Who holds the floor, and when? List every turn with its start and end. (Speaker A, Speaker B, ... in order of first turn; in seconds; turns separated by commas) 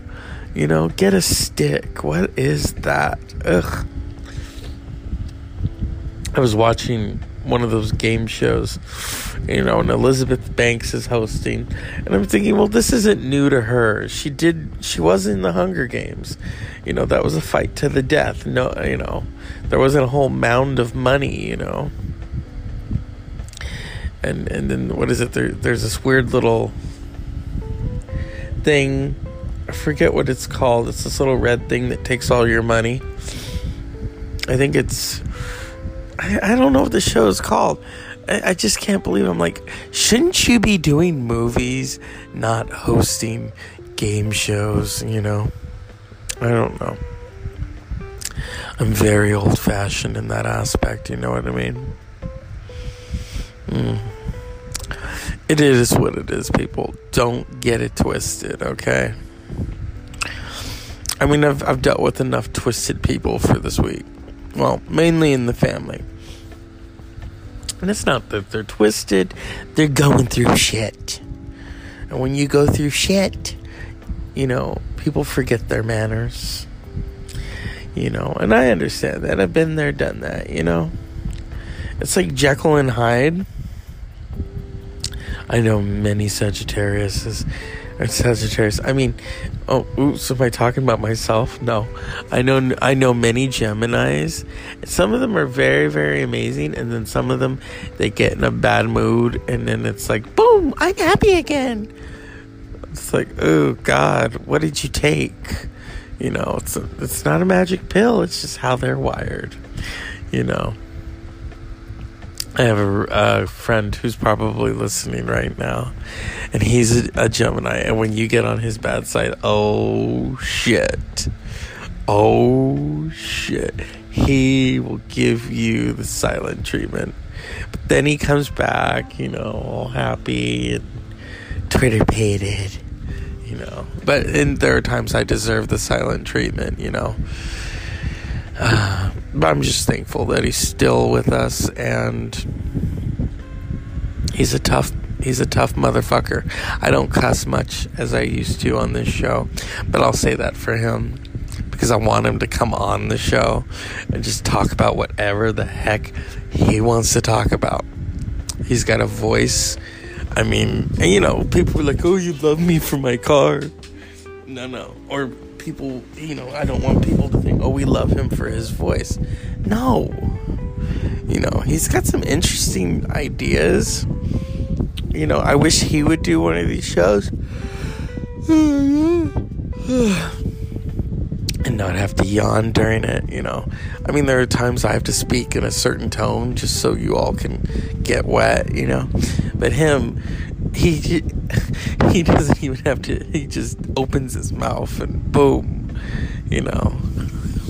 Speaker A: 0.5-3.9, Speaker A: 6.3-21.9, Speaker A: 24.2-26.8, Speaker A: 28.6-33.1, Speaker A: 34.5-35.2, Speaker A: 36.2-45.5, Speaker A: 46.4-47.0, Speaker A: 48.8-51.9, Speaker A: 53.7-54.1, Speaker A: 54.8-59.1, Speaker A: 60.2-60.5, Speaker A: 61.2-66.1, Speaker A: 67.8-71.2, Speaker A: 72.1-73.6, Speaker A: 74.3-76.7, Speaker A: 77.9-80.9, Speaker A: 82.0-83.5, Speaker A: 85.5-101.9, Speaker A: 102.9-110.8, Speaker A: 112.6-121.3, Speaker A: 122.1-130.9, Speaker A: 131.7-132.8, Speaker A: 133.4-142.5, Speaker A: 144.3-157.9, Speaker A: 158.6-159.8, Speaker A: 160.3-163.7, Speaker A: 164.4-170.4, Speaker A: 171.2-174.1, Speaker A: 175.1-180.4, Speaker A: 181.6-190.2, Speaker A: 190.7-197.1